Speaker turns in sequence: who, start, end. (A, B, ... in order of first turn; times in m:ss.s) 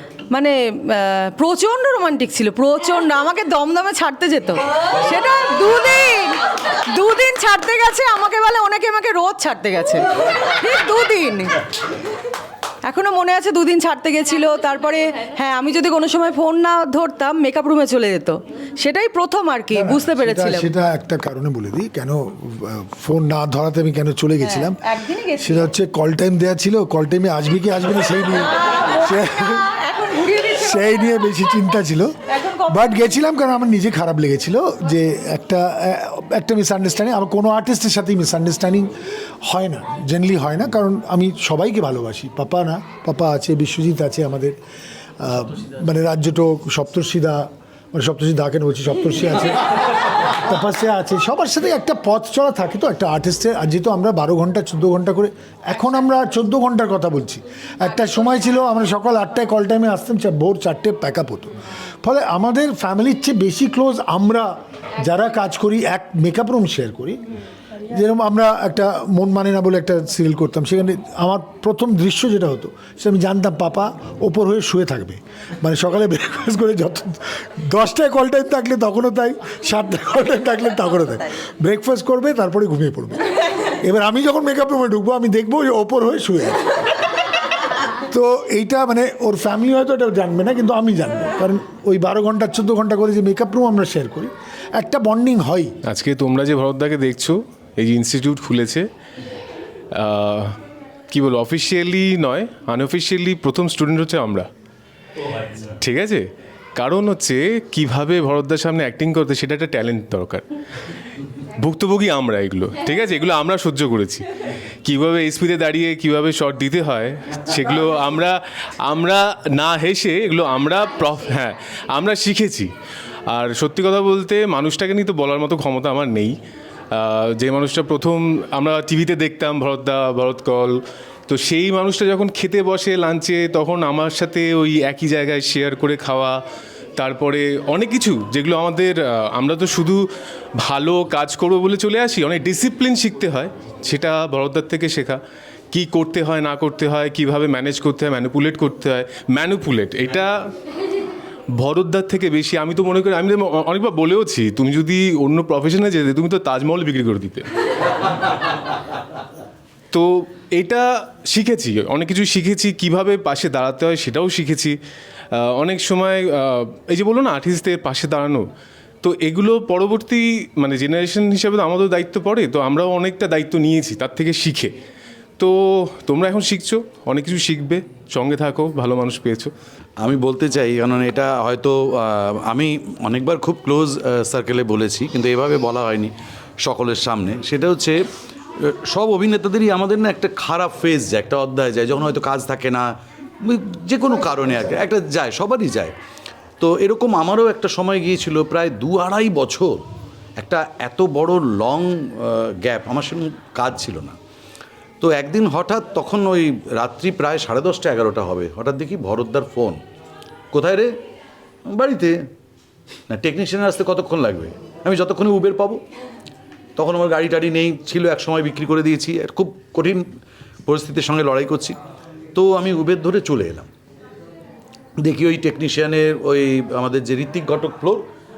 0:00.3-0:11.6 A
0:12.8-0:20.7 A
0:19.7-0:24.9 B
0:24.4-0:25.7 A
0:25.4-0:29.7 B
0:28.6-0:31.2 A
0:30.5-0:38.9 B
0:32.3-0:33.2 A
0:39.4-0:44.6 B
0:45.2-1:07.2 B
1:07.9-1:26.7 B
1:27.9-1:35.7 B
1:35.9-1:38.9 C
1:39.9-1:40.6 C
1:41.1-1:44.5 C
1:45.8-1:50.4 C
1:51.6-1:54.2 C
1:54.8-2:02.7 C
2:03.3-2:06.4 C
2:06.9-2:16.4 C
2:17.0-2:20.0 C
2:20.6-2:25.2 C
2:25.7-2:30.3 C
2:31.6-2:37.5 C
2:39.9-2:44.8 C
2:45.3-2:48.5 C
2:49.0-2:54.7 C
2:55.4-2:59.5 C
3:00.0-3:06.1 D
3:06.6-3:08.0 D
3:08.9-3:12.9 D
3:13.5-3:16.0 D
3:16.6-3:19.8 D
3:20.4-3:24.2 D
3:25.0-3:29.8 D
3:30.5-3:30.9 D
3:31.7-3:32.2 D
3:33.1-3:35.8 D
3:36.8-3:40.0 D
3:40.7-3:41.8 D
3:42.4-3:43.7 D
3:45.0-3:48.0 D